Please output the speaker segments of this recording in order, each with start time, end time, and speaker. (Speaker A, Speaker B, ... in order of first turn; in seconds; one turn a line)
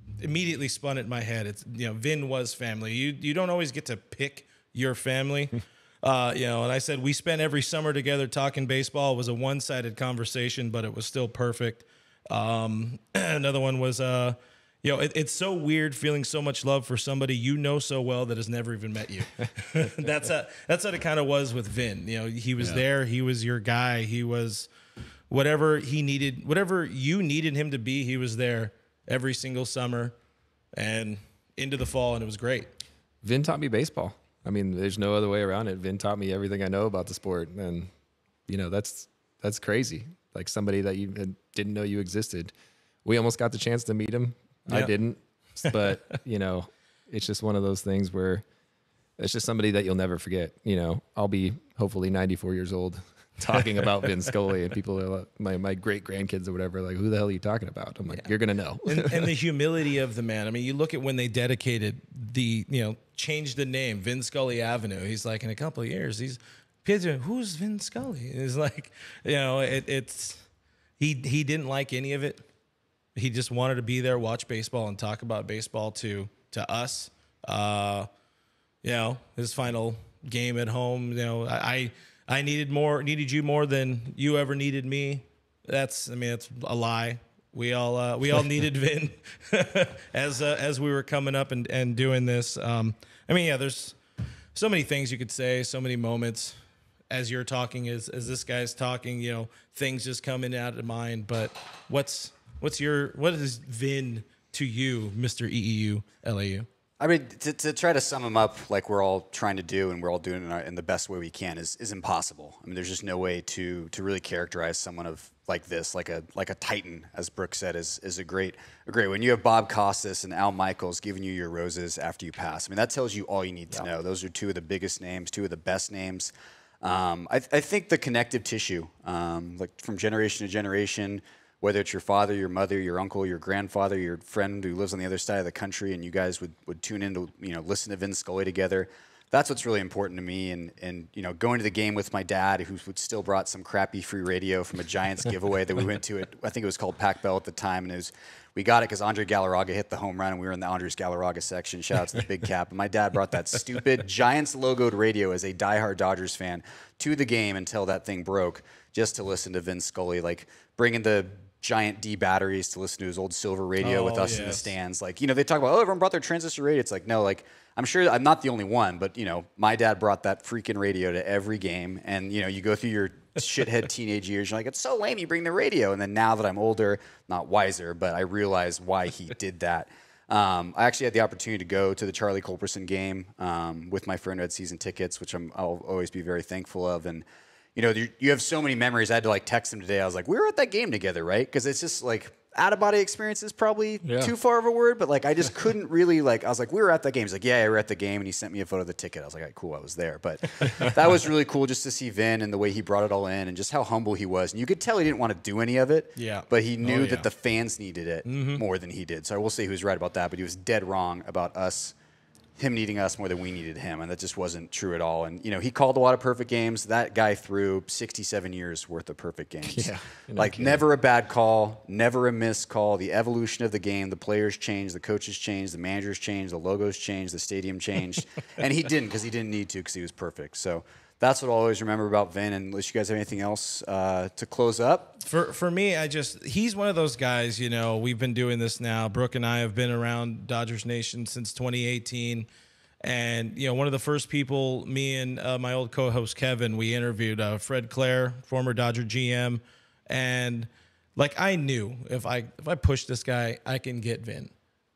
Speaker A: 0.2-24.7
Speaker A: 25.3-30.1
Speaker A: 30.7-32.7
Speaker B: 33.2-37.9
Speaker B: 38.5-42.5
Speaker B: 43.0-48.4
Speaker A: 45.6-46.0
Speaker B: 49.2-59.3
Speaker A: 58.9-70.4
Speaker A: 71.0-72.4
Speaker A: 73.2-78.1
Speaker A: 78.8-94.0
Speaker A: 94.5-96.6
Speaker A: 97.1-106.7
Speaker C: 107.0-187.2
Speaker A: 163.8-164.7
Speaker C: 187.8-211.9
Speaker A: 206.2-207.3
Speaker A: 208.2-208.6
Speaker C: 212.6-235.2
Speaker B: 219.6-220.8
Speaker A: 235.2-242.5
Speaker A: 243.0-254.5